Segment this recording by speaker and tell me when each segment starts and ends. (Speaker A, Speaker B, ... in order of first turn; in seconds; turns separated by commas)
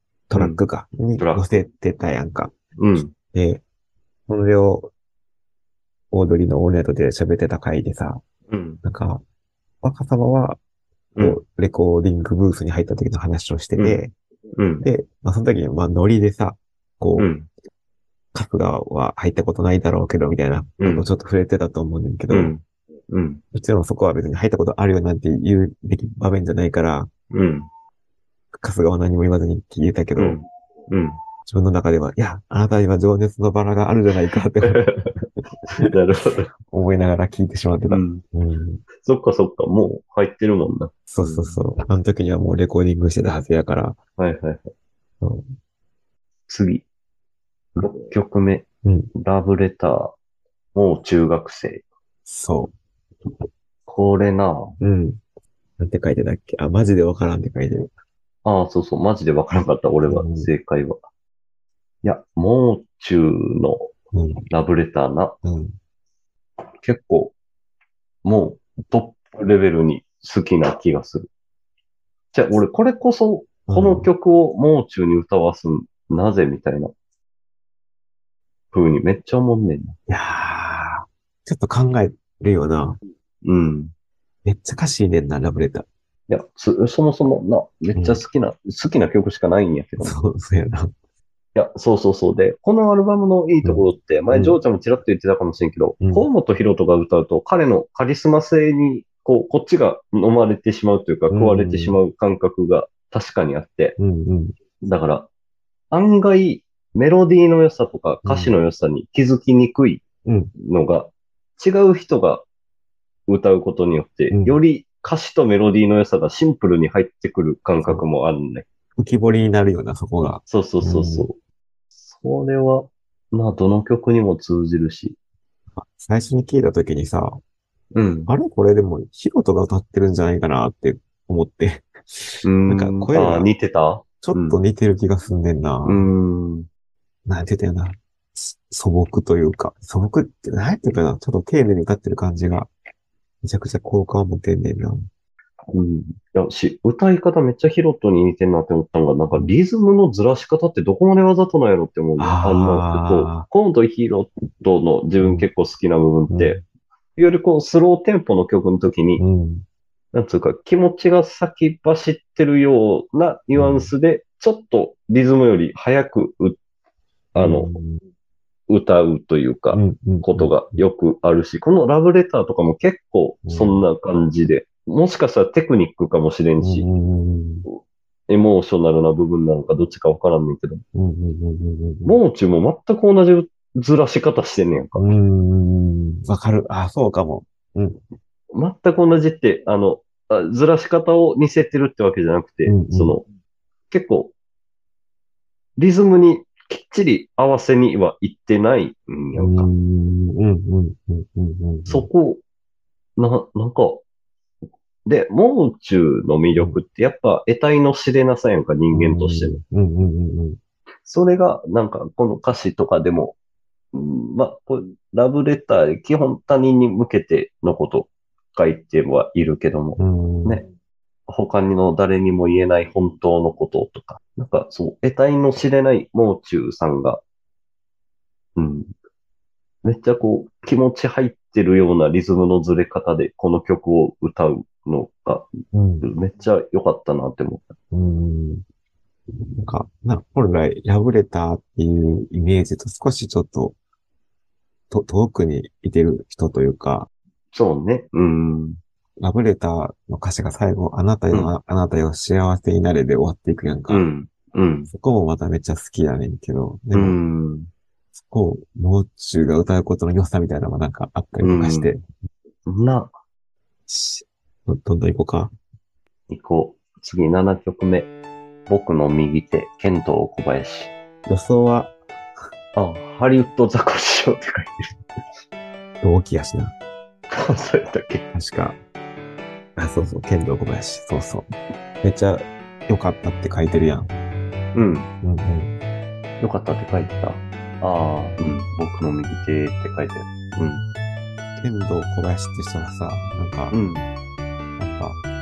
Speaker A: 0.3-2.5, Speaker B: 0.3-0.6, Speaker B: 1.2-1.4, Speaker B: 2.8-3.1, Speaker A: 3.1-3.6, Speaker A: 4.3-4.9, Speaker A: 6.1-8.2, Speaker B: 8.5-8.8, Speaker A: 8.8-9.2, Speaker A: 9.8-10.6, Speaker A: 11.2-14.1, Speaker B: 13.8-14.0, Speaker B: 14.6-14.8, Speaker A: 14.8-17.3, Speaker B: 17.2-17.5, Speaker A: 18.3-22.5, Speaker B: 20.8-21.1, Speaker B: 22.3-23.4, Speaker A: 23.5-27.1, Speaker B: 27.3-27.7, Speaker A: 28.5-30.4, Speaker B: 30.2-31.2, Speaker A: 31.4-34.9, Speaker B: 34.6-35.1, Speaker B: 35.7-36.5, Speaker A: 36.6-38.8, Speaker B: 37.9-38.2, Speaker B: 39.0-41.6, Speaker A: 41.1-44.0, Speaker B: 44.2-44.7, Speaker A: 45.2-45.5, Speaker B: 46.5-46.9, Speaker B: 47.8-50.1, Speaker A: 48.8-49.1, Speaker B: 50.7-51.9, Speaker A: 52.2-52.7, Speaker B: 53.9-54.7, Speaker A: 54.8-55.2, Speaker A: 55.8-57.9, Speaker B: 58.4-61.0, Speaker A: 60.1-60.5, Speaker B: 62.0-63.9, Speaker A: 64.1-64.4, Speaker B: 64.5-65.4, Speaker A: 65.4-65.7, Speaker B: 66.8-67.3, Speaker B: 68.2-71.3, Speaker B: 72.3-76.9, Speaker A: 73.7-74.1, Speaker B: 78.7-80.0, Speaker A: 80.1-83.0, Speaker B: 83.4-83.9, Speaker A: 84.4-85.9, Speaker B: 86.3-90.2, Speaker A: 87.9-88.2, Speaker A: 90.0-90.9, Speaker B: 91.5-104.0, Speaker A: 93.6-94.6, Speaker A: 96.0-96.3, Speaker A: 101.3-102.0, Speaker A: 104.0-104.5, Speaker B: 104.8-105.3, Speaker B: 105.9-110.0, Speaker A: 108.2-108.5, Speaker A: 110.2-110.5, Speaker B: 110.6-112.4, Speaker B: 113.3-118.7, Speaker A: 114.3-114.6, Speaker A: 119.0-121.3, Speaker B: 120.5-121.4, Speaker B: 122.1-125.2, Speaker A: 125.7-127.4, Speaker B: 127.9-128.3, Speaker A: 128.3-133.5, Speaker B: 132.4-134.6, Speaker A: 134.2-136.1, Speaker B: 135.8-136.7, Speaker A: 137.2-142.7, Speaker A: 143.4-145.1, Speaker B: 145.7-156.6, Speaker A: 152.2-153.5, Speaker A: 156.3-156.6, Speaker B: 157.2-159.2, Speaker A: 159.2-159.6, Speaker B: 160.1-166.6, Speaker A: 163.5-163.9, Speaker B: 167.3-167.7, Speaker A: 167.4-168.0, Speaker B: 168.7-176.9, Speaker A: 169.7-170.8, Speaker A: 173.4-173.8, Speaker A: 176.6-177.6, Speaker B: 178.3-180.8, Speaker A: 180.9-182.2, Speaker B: 182.1-185.1, Speaker A: 184.9-188.0, Speaker B: 188.5-193.2, Speaker A: 192.7-193.2, Speaker B: 193.9-194.3, Speaker B: 195.8-199.7, Speaker A: 199.4-202.1, Speaker B: 201.9-202.4, Speaker B: 203.2-204.0, Speaker B: 205.1-209.6, Speaker A: 208.9-210.6, Speaker B: 211.1-213.4, Speaker B: 213.9-220.6, Speaker A: 220.0-220.6, Speaker B: 221.3-227.2, Speaker B: 228.6-228.9, Speaker B: 229.8-235.5, Speaker A: 235.7-236.1, Speaker B: 236.0-237.7, Speaker A: 237.9-238.6, Speaker A: 239.6-243.8, Speaker A: 244.9-247.1, Speaker B: 247.5-248.8, Speaker A: 249.2-254.1, Speaker B: 253.9-254.9, Speaker A: 254.9-257.2, Speaker B: 256.9-257.7, Speaker A: 258.1-262.0, Speaker B: 261.4-261.9, Speaker B: 262.6-263.1, Speaker A: 263.9-265.5, Speaker B: 266.3-268.1, Speaker B: 268.7-270.9, Speaker A: 271.3-271.9, Speaker B: 272.7-275.0, Speaker A: 276.0-276.7, Speaker B: 277.3-278.2, Speaker A: 278.3-278.8, Speaker A: 279.8-281.4, Speaker A: 282.0-284.1, Speaker B: 284.7-285.1, Speaker A: 285.2-285.8, Speaker B: 286.4-290.8, Speaker A: 291.6-293.8, Speaker B: 293.7-294.1, Speaker A: 294.8-295.2